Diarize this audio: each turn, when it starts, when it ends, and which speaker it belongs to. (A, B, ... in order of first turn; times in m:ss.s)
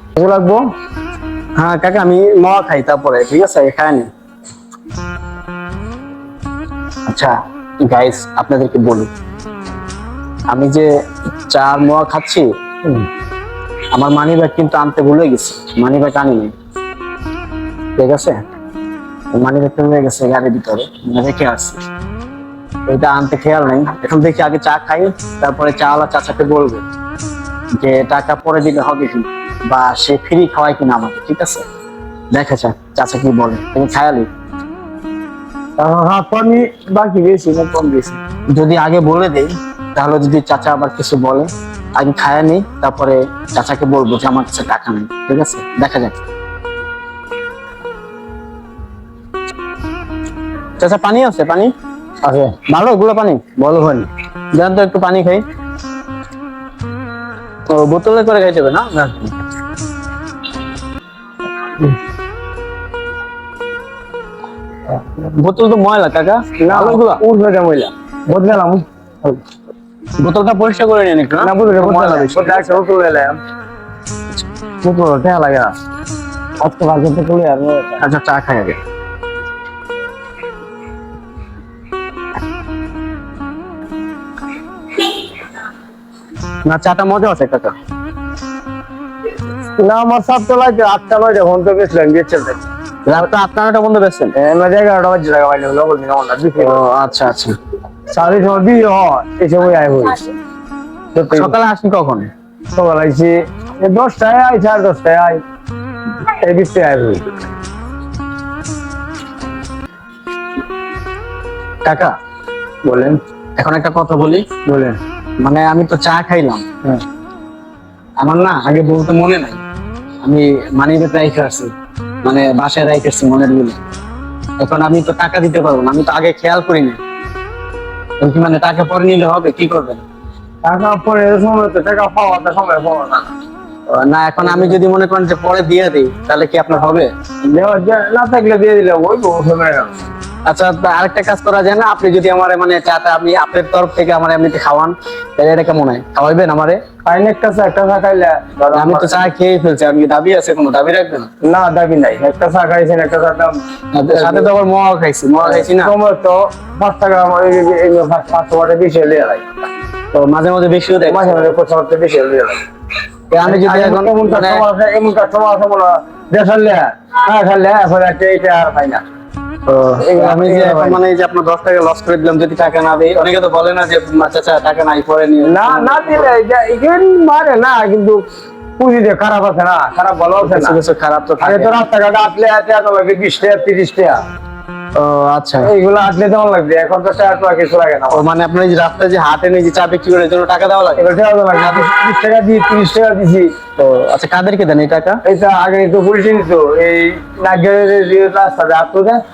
0:00.2-0:00.6 A
0:01.6-0:04.1 B
0:07.1-0:09.1 B
0:10.5-0:10.9 B
0:11.5-0:12.5 B
0:13.9-0:16.5 B
0:18.0-0:18.4 B
0:19.3-0:21.8 B
0:22.9-0:26.8 B
0:27.8-0:31.6 B
0:32.3-0:34.3 B
0:35.8-0:38.2 A
0:38.5-0:46.1 B
0:50.8-0:51.7 B
0:52.2-0:52.6 A
0:52.7-0:55.4 B
0:57.7-0:59.3 B
1:05.1-1:07.2 B
1:06.6-1:09.3 A
1:10.2-1:12.7 B
1:11.4-1:13.4 A
1:14.8-1:15.7 A
1:16.6-1:18.0 A
1:18.0-1:18.8 B
1:26.7-1:27.7 B
1:29.8-1:32.6 A
1:33.0-1:34.3 B
1:34.3-1:36.8 A
1:36.6-1:37.5 B
1:38.1-1:40.2 A
1:41.1-1:41.5 A
1:41.3-1:42.3 B
1:42.7-1:45.4 A
1:46.2-1:47.2 A
1:51.8-1:52.1 B
1:52.8-1:53.2 A
1:53.6-1:54.5 B
1:54.6-1:55.0 A
1:55.4-1:56.6 B
1:58.2-1:59.6 B
2:00.2-2:01.7 B
2:02.2-2:03.8 B
2:04.6-2:07.0 B
2:08.2-2:10.0 B
2:10.6-2:13.3 A
2:13.9-2:17.1 B
2:14.4-2:14.8 A
2:17.5-2:19.9 A
2:20.4-2:26.8 B
2:27.0-2:29.2 A
2:28.7-2:31.3 B
2:31.4-2:34.5 A
2:33.9-2:35.9 B
2:35.4-2:39.4 A
2:40.1-2:41.5 B
2:41.1-2:42.6 A
2:43.3-2:44.6 B
2:43.4-2:49.0 A
2:49.7-2:56.3 B
2:50.0-2:51.0 A
2:55.4-2:58.2 A
2:58.8-3:00.8 A
3:00.4-3:01.8 B
3:01.4-3:04.2 A
3:04.9-3:05.7 B
3:05.6-3:08.2 A
3:08.1-3:11.1 B
3:11.0-3:13.5 A
3:13.8-3:15.2 B
3:15.2-3:19.2 A